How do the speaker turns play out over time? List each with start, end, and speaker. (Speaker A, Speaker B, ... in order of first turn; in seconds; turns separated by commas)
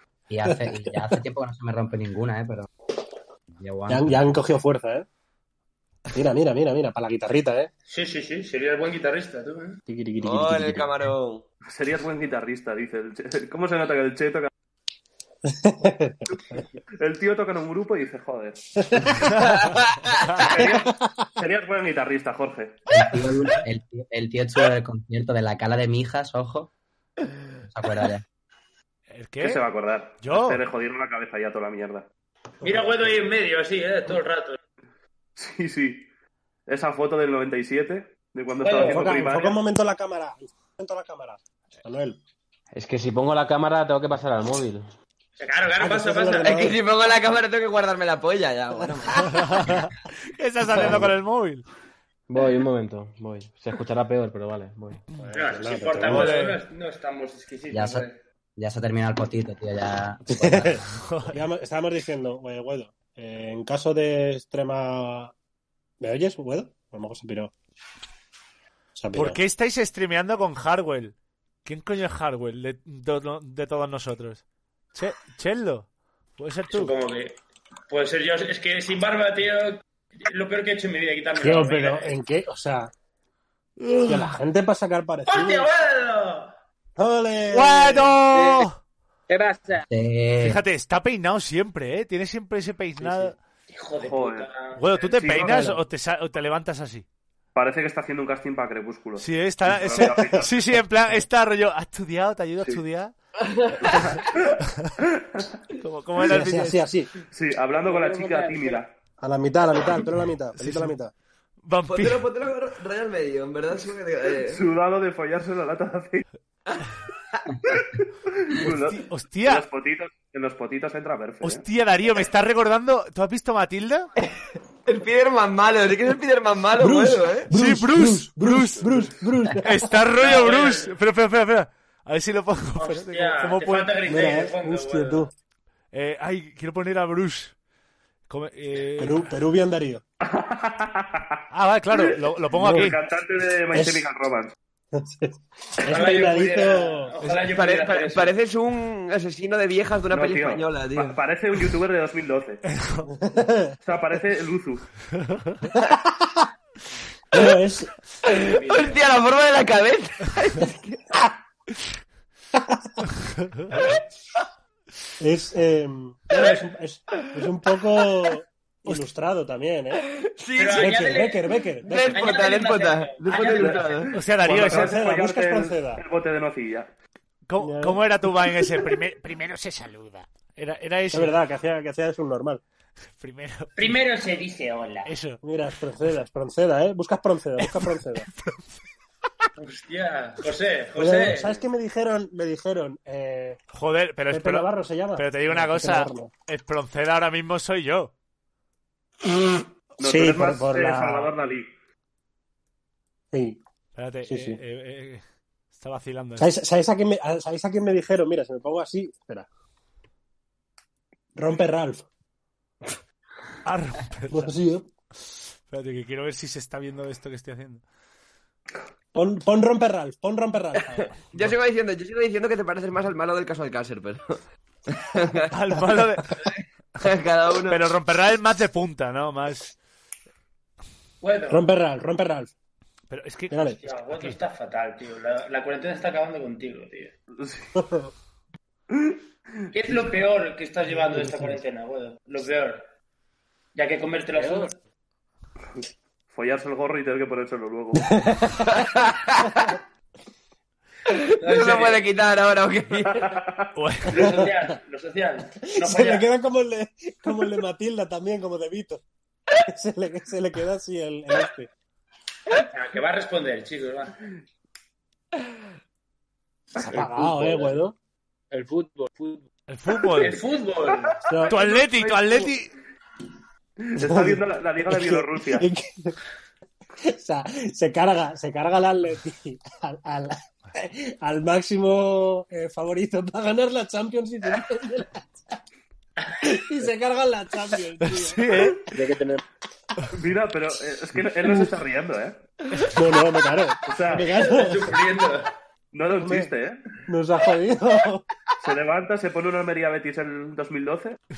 Speaker A: 0.3-2.7, Speaker A: 3.5-4.3, Speaker B: 3.9-5.1, Speaker B: 6.1-7.7, Speaker C: 7.9-9.8, Speaker B: 9.9-10.9, Speaker D: 10.2-11.4, Speaker E: 11.7-14.5, Speaker B: 15.7-16.1, Speaker E: 17.0-18.6, Speaker F: 19.3-20.4, Speaker D: 19.4-20.4, Speaker E: 20.5-22.8, Speaker B: 20.7-21.0, Speaker A: 22.9-26.7, Speaker A: 27.7-28.2, Speaker F: 29.1-29.6, Speaker E: 29.4-32.1, Speaker F: 30.2-30.6, Speaker C: 32.6-34.6, Speaker E: 35.4-36.1, Speaker E: 36.7-39.6, Speaker C: 38.6-39.1, Speaker B: 38.8-42.2, Speaker G: 42.7-44.9, Speaker C: 45.4-46.7, Speaker B: 45.8-46.8, Speaker D: 46.4-49.3, Speaker F: 49.4-51.7, Speaker B: 50.8-51.1, Speaker G: 52.3-55.0, Speaker B: 55.1-56.3, Speaker C: 55.3-58.2, Speaker F: 56.1-56.6, Speaker A: 57.7-58.1, Speaker A: 58.6-61.0, Speaker B: 60.4-60.8, Speaker F: 61.0-61.4, Speaker B: 61.3-65.3, Speaker B: 66.0-67.5, Speaker B: 69.0-69.4, Speaker F: 69.1-74.4, Speaker F: 74.9-76.9, Speaker C: 76.7-77.4, Speaker C: 77.9-82.1, Speaker B: 81.4-82.9, Speaker B: 84.1-85.7, Speaker C: 85.3-86.5, Speaker B: 87.0-88.2, Speaker F: 87.5-88.8, Speaker A: 89.9-90.6, Speaker F: 90.4-93.4, Speaker C: 93.7-95.1, Speaker E: 94.0-94.5, Speaker F: 94.8-97.0, Speaker E: 95.1-95.7, Speaker E: 97.5-100.5, Speaker F: 99.2-103.1, Speaker B: 100.0-100.4, Speaker D: 103.4-104.1, Speaker E: 103.8-104.6, Speaker F: 104.6-104.9, Speaker E: 105.1-105.6, Speaker F: 105.8-106.8, Speaker B: 106.2-107.1, Speaker E: 107.3-108.9, Speaker B: 109.2-111.1, Speaker F: 110.6-110.9, Speaker F: 111.7-112.3, Speaker D: 111.9-114.6, Speaker E: 114.5-116.2, Speaker E: 117.7-121.6, Speaker F: 118.6-119.7, Speaker F: 121.4-124.1, Speaker D: 124.9-127.5, Speaker B: 126.8-129.7, Speaker F: 127.5-128.9, Speaker F: 129.6-133.9, Speaker C: 130.2-130.9, Speaker C: 132.8-135.3, Speaker B: 134.1-135.3, Speaker F: 135.9-137.6, Speaker F: 138.3-139.3, Speaker B: 139.0-140.0, Speaker E: 140.2-141.4, Speaker F: 141.5-143.0, Speaker E: 142.6-144.6, Speaker B: 142.6-142.9, Speaker B: 143.7-144.0, Speaker B: 145.0-145.3, Speaker B: 145.9-147.0, Speaker C: 145.9-148.3, Speaker D: 147.5-151.2, Speaker E: 150.1-152.6, Speaker F: 152.7-153.1, Speaker B: 153.2-153.7, Speaker E: 153.8-154.9, Speaker F: 155.2-155.7, Speaker B: 157.3-157.9, Speaker D: 158.2-161.2, Speaker C: 158.3-159.0, Speaker D: 163.7-164.0, Speaker B: 165.2-170.0, Speaker C: 166.3-166.6, Speaker D: 170.0-171.0, Speaker C: 170.6-171.4, Speaker B: 170.8-172.2, Speaker D: 171.9-174.1, Speaker C: 172.1-174.1, Speaker E: 173.6-176.9, Speaker F: 174.1-175.1, Speaker B: 174.5-176.0, Speaker F: 177.5-181.3, Speaker B: 177.6-178.0, Speaker B: 181.1-182.6, Speaker F: 183.2-183.9, Speaker C: 183.8-185.1, Speaker F: 185.1-185.4, Speaker B: 185.4-188.3, Speaker F: 187.6-188.7, Speaker C: 189.6-191.6, Speaker B: 191.0-193.6, Speaker F: 193.7-198.1, Speaker B: 194.3-196.3, Speaker E: 200.0-201.7, Speaker B: 200.0-201.3, Speaker B: 203.3-203.6, Speaker F: 203.9-205.2, Speaker B: 204.3-204.6, Speaker F: 205.8-206.5, Speaker B: 206.4-209.5, Speaker B: 211.4-212.1, Speaker F: 213.7-214.5, Speaker B: 214.3-214.9, Speaker F: 215.7-217.8, Speaker B: 219.1-220.8, Speaker D: 220.9-225.5, Speaker F: 225.5-226.3, Speaker D: 226.4-227.8, Speaker F: 227.7-229.8, Speaker C: 231.2-231.7, Speaker B: 231.5-232.5, Speaker F: 233.1-234.4, Speaker B: 233.5-233.8, Speaker C: 233.8-237.1, Speaker E: 237.4-237.7, Speaker B: 237.8-238.1, Speaker E: 238.9-239.7, Speaker C: 239.7-242.8, Speaker B: 241.1-241.6, Speaker C: 243.8-244.8, Speaker E: 246.3-248.1, Speaker B: 248.0-248.7, Speaker D: 248.6-249.6, Speaker D: 251.1-253.4, Speaker C: 251.4-252.0, Speaker E: 253.1-253.7, Speaker F: 253.8-254.2, Speaker C: 254.1-256.3, Speaker B: 255.9-259.0, Speaker B: 259.8-261.7, Speaker C: 262.7-264.2, Speaker B: 266.8-267.9, Speaker G: 267.0-267.7, Speaker G: 268.5-269.4, Speaker F: 269.7-270.4, Speaker C: 270.2-272.5, Speaker F: 271.5-272.7, Speaker E: 273.8-275.7, Speaker B: 274.0-276.1, Speaker B: 277.2-280.3, Speaker B: 281.3-285.1, Speaker B: 286.7-288.5, Speaker F: 288.1-288.9, Speaker G: 288.9-289.4, Speaker E: 290.1-292.4, Speaker B: 292.9-294.9, Speaker E: 293.9-294.3, Speaker C: 294.1-295.5, Speaker E: 295.9-296.9, Speaker B: 296.2-296.5, Speaker B: 297.1-298.2, Speaker E: 298.6-301.2